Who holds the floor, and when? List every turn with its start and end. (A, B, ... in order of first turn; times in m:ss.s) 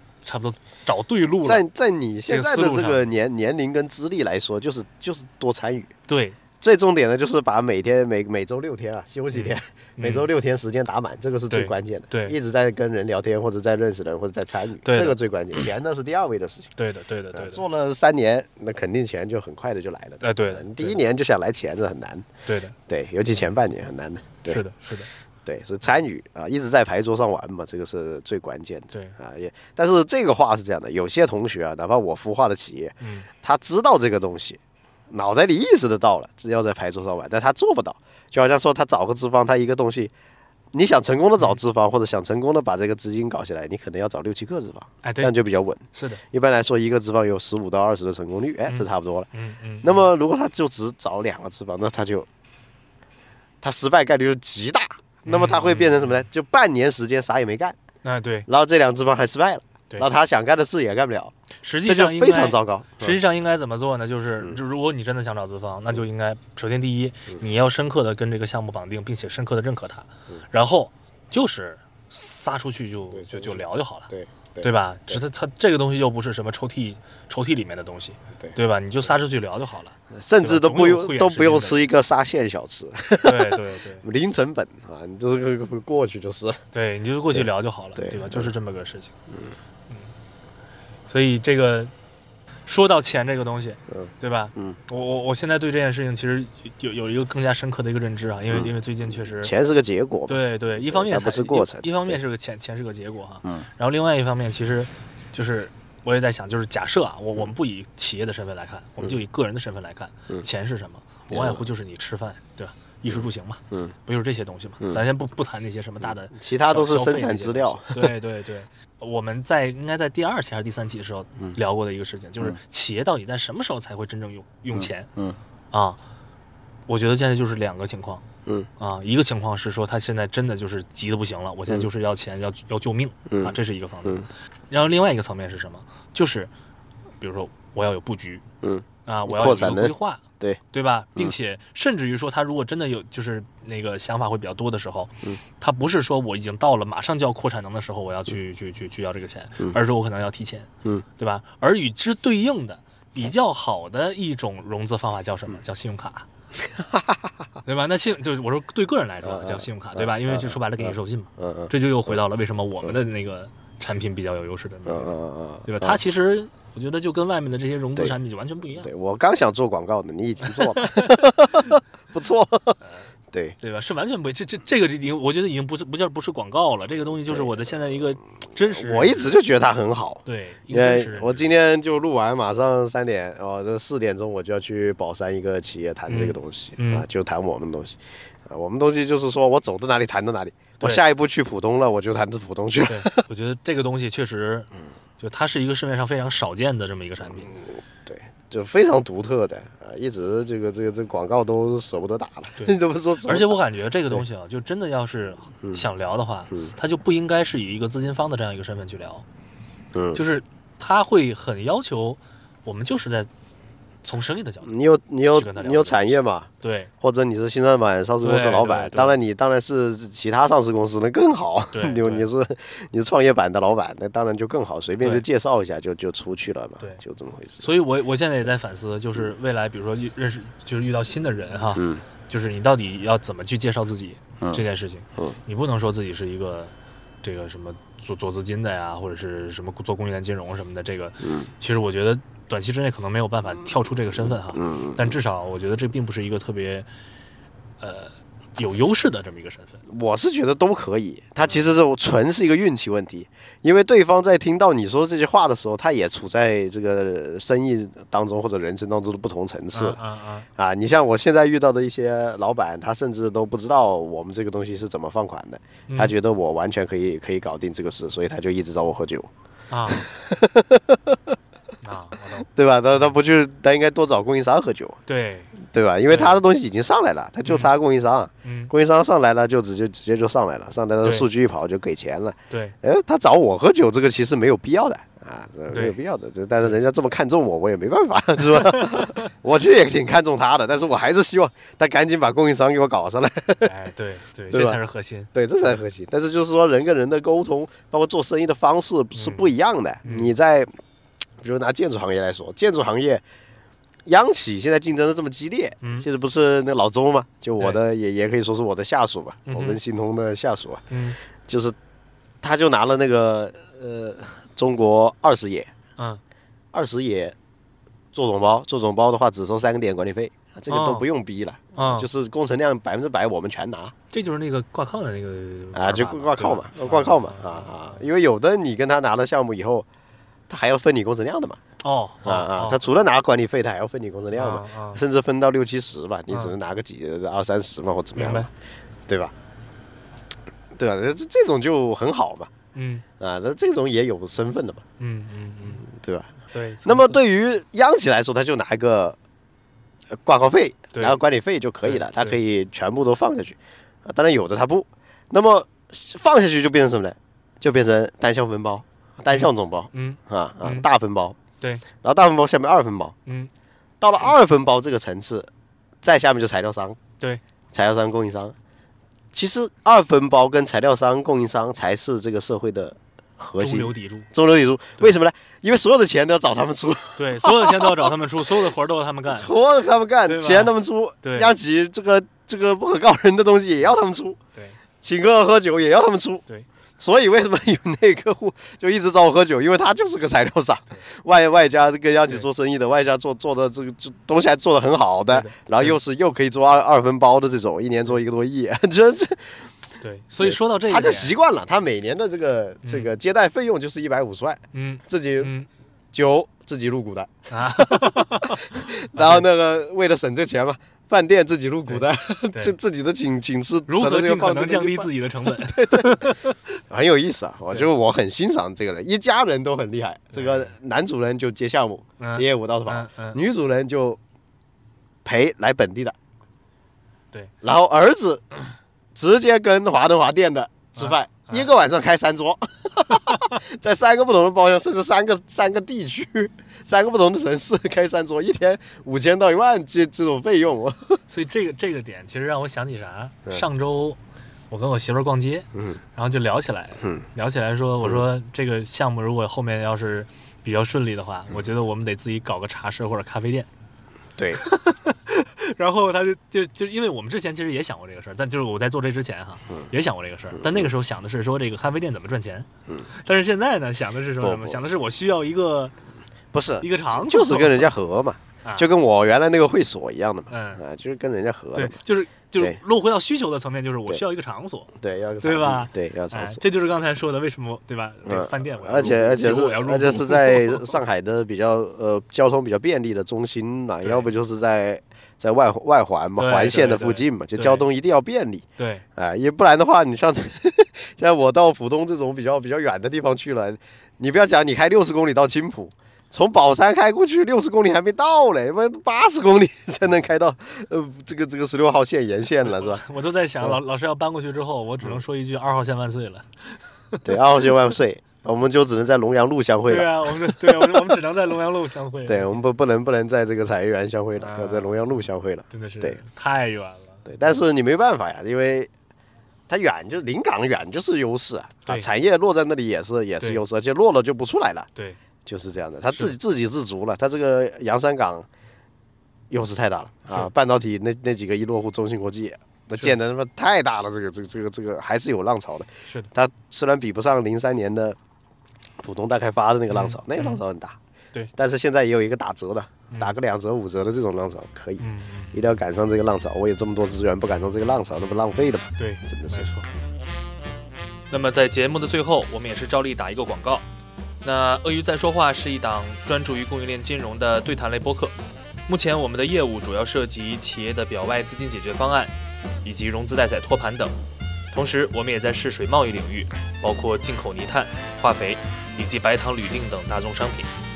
0:00.2-0:01.6 A
0:01.4-0:05.9 B
0:02.3-0:03.1 A
0:06.1-0:06.4 A
0:06.6-0:16.7 B
0:09.3-0:10.3 A
0:11.5-0:12.4 A
0:14.8-0:15.6 A
0:16.8-0:17.6 A
0:17.3-0:22.3 B
0:20.2-0:21.0 A
0:22.4-0:22.8 A
0:22.9-0:24.6 B
0:24.5-0:25.1 A
0:25.5-0:40.1 B
0:33.0-0:33.3 A
0:40.7-0:49.3 B
0:45.0-0:45.3 A
0:45.9-0:46.2 A
0:48.7-0:50.1 A
0:49.8-0:52.3 B
0:53.6-0:57.8 B
0:55.2-0:56.2 A
0:58.0-0:58.5 A
0:58.5-1:01.3 B
1:01.6-1:14.1 A
1:01.8-1:03.2 B
1:13.1-1:15.2 B
1:14.6-1:21.8 A
1:20.1-1:26.6 B
1:23.2-1:24.0 A
1:26.7-1:29.1 A
1:28.0-1:28.5 B
1:31.1-1:31.9 A
1:32.7-1:39.5 A
1:33.9-1:34.8 B
1:39.3-1:42.2 B
1:40.3-2:05.1 A
1:51.3-1:51.6 B
1:53.1-1:53.9 B
1:56.0-1:58.1 B
2:04.7-2:05.4 B
2:05.7-2:06.0 A
2:06.9-2:08.2 A
2:08.8-2:16.5 A
2:13.3-2:14.3 B
2:17.2-2:18.4 A
2:18.6-2:20.6 B
2:19.1-2:36.3 A
2:36.6-2:37.3 B
2:37.6-2:48.9 A
2:39.2-2:42.2 B
2:44.9-2:46.0 B
2:48.8-2:52.8 B
2:50.4-2:51.2 A
2:53.6-2:59.3 A
2:57.3-2:57.6 B
2:58.7-3:13.2 B
3:00.2-3:01.5 A
3:06.1-3:07.1 A
3:12.9-3:17.5 A
3:17.3-3:23.6 B
3:22.6-3:29.2 A
3:29.9-3:30.2 B
3:30.1-3:33.3 A
3:34.0-3:34.7 A
3:34.6-3:36.5 B
3:35.3-3:36.9 A
3:37.0-3:47.7 B
3:38.2-3:39.2 A
3:41.7-3:42.2 A
3:45.0-3:45.2 A
3:47.6-4:06.9 A
3:51.8-3:52.0 B
4:01.2-4:01.5 B
4:04.5-4:05.2 B
4:07.8-4:09.8 A
4:09.9-4:20.0 B
4:19.7-4:20.5 A
4:20.6-4:29.3 B
4:25.9-4:26.2 A
4:29.7-4:30.1 A
4:29.9-4:31.4 B
4:31.8-4:33.1 A
4:32.4-4:35.0 B
4:35.1-4:35.5 A
4:35.6-4:53.7 B
4:36.1-4:36.4 A
4:37.4-4:37.7 A
4:38.4-4:38.7 A
4:45.7-4:46.0 A
4:48.5-4:49.3 A
4:53.6-4:55.3 A
4:54.5-4:54.8 B
4:55.3-5:00.7 B
4:59.2-4:59.5 A
5:00.0-5:00.3 A
5:01.4-5:03.2 B
5:04.1-5:10.8 B
5:05.8-5:06.1 A
5:09.5-5:09.8 A
5:10.9-5:11.2 A
5:11.5-5:11.8 B
5:12.4-5:15.7 B
5:16.7-5:17.4 B
5:18.1-5:23.9 B
5:20.7-5:21.1 A
5:21.8-5:22.1 A
5:24.1-5:28.0 A
5:25.7-5:29.9 B
5:30.5-5:31.6 B
5:31.8-5:32.8 A
5:32.2-5:38.5 B
5:34.4-5:35.0 A
5:38.2-5:38.5 A
5:39.1-5:39.3 B
5:40.8-5:42.5 B
5:42.7-5:43.0 A
5:43.2-5:44.8 B
5:45.0-5:45.8 A
5:45.8-5:46.3 B
5:46.5-5:47.2 A
5:46.8-5:49.2 B
5:50.1-6:01.4 B
5:51.8-5:52.4 A
5:59.3-6:00.9 A
6:02.0-6:03.2 B
6:03.3-6:03.5 A
6:04.0-6:05.5 B
6:06.0-6:07.0 B
6:07.7-6:08.6 B
6:09.3-6:18.1 B
6:13.6-6:14.3 A
6:17.2-6:19.5 A
6:19.4-6:24.4 B
6:20.3-6:21.5 A
6:25.0-6:26.4 B
6:27.0-6:39.7 B
6:35.3-6:36.0 A
6:40.0-6:41.4 A
6:40.4-6:45.5 B
6:42.8-6:43.1 A
6:44.7-6:45.7 A
6:46.1-6:56.4 B
6:47.5-6:49.5 A
6:51.9-6:52.8 A
6:53.9-6:56.7 A
6:56.9-7:04.2 B
7:00.4-7:00.7 A
7:02.2-7:03.4 A
7:05.2-7:06.2 B
7:07.6-7:08.4 B
7:09.2-7:21.2 B
7:11.0-7:11.7 A
7:13.1-7:13.6 A
7:21.3-7:24.2 A
7:24.7-7:33.7 A
7:25.7-7:26.0 B
7:34.4-7:34.6 B
7:34.5-7:45.9 A
7:40.5-7:40.9 B
7:44.4-7:44.8 B
7:46.5-7:52.0 B
7:46.8-7:47.9 A
7:50.5-7:50.8 A
7:51.8-8:00.8 A
7:55.0-7:56.6 B
7:58.3-8:08.6 B
8:04.0-8:04.3 A
8:06.4-8:07.9 A
8:08.8-8:09.0 A
8:09.2-8:23.0 B
8:22.6-8:27.2 A
8:27.2-8:31.2 B
8:29.9-8:32.6 A
8:32.3-8:36.2 B
8:34.4-8:35.1 A
8:35.7-8:37.5 A
8:37.3-8:38.9 B
8:39.7-8:44.9 B
8:45.5-8:48.5 B
8:49.5-8:58.2 B
8:56.0-8:56.3 A
8:59.0-9:01.0 B
8:59.9-9:00.6 A
9:01.5-9:09.7 B
9:05.0-9:05.6 A
9:09.0-9:09.9 A
9:11.3-9:13.9 A
9:14.4-9:18.4 A
9:18.9-9:24.1 A
9:24.7-9:30.7 A